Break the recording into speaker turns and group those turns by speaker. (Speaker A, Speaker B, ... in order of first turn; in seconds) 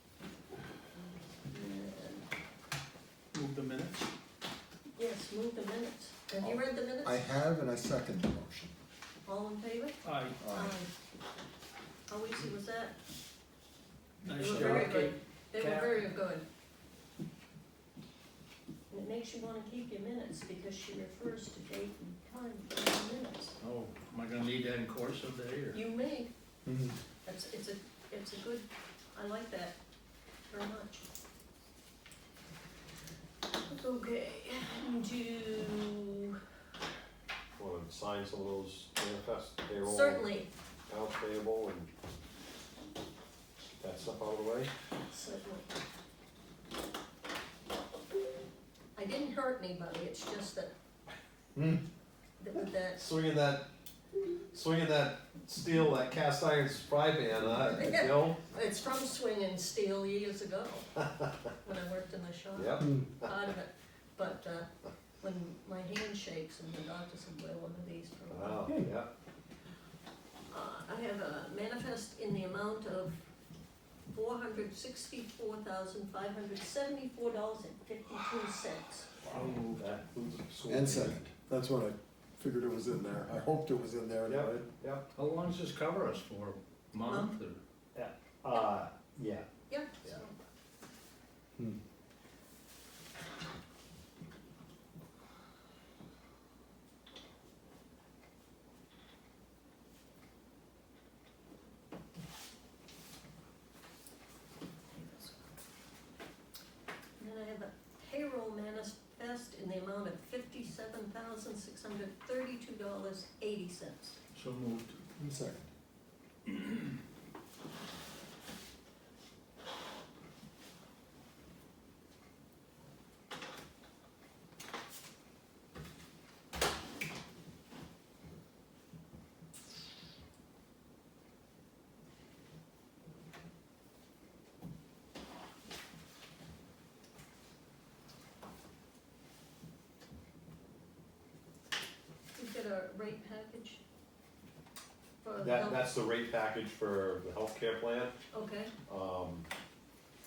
Speaker A: 1.5-2.3, 5.0-7.2, 9.3-10.9, 12.1-12.9, 14.4-16.5, 18.9-23.6, 25.7-26.3, 27.2-29.8, 30.5-31.1, 33.6-36.4, 39.8-40.5, 45.1-45.7, 49.0-50.7, 52.4-53.0, 57.7-61.0, 61.6-64.7, 65.2-68.7, 70.5-73.3, 74.1-79.1, 87.0-87.3, 89.7-90.4, 104.9-105.5, 107.2-114.2, 142.4-143.8, 145.2-145.9, 148.3-148.7
Speaker B: 3.3-4.0, 10.0-10.4, 14.2-15.9, 23.6-25.8, 79.2-79.8, 85.2-87.6, 114.3-115.0
Speaker C: 6.4-8.7, 10.4-10.8, 14.4-14.9, 26.7-27.0, 51.6-51.8, 80.7-84.7, 115.2-115.7
Speaker D: 37.6-40.3, 40.9-41.9, 43.6-44.7, 53.0-53.7, 54.5-58.4, 62.6-63.4, 68.3-69.1, 79.7-81.2, 84.3-85.1, 87.9-89.5, 145.4-148.2, 148.9-149.5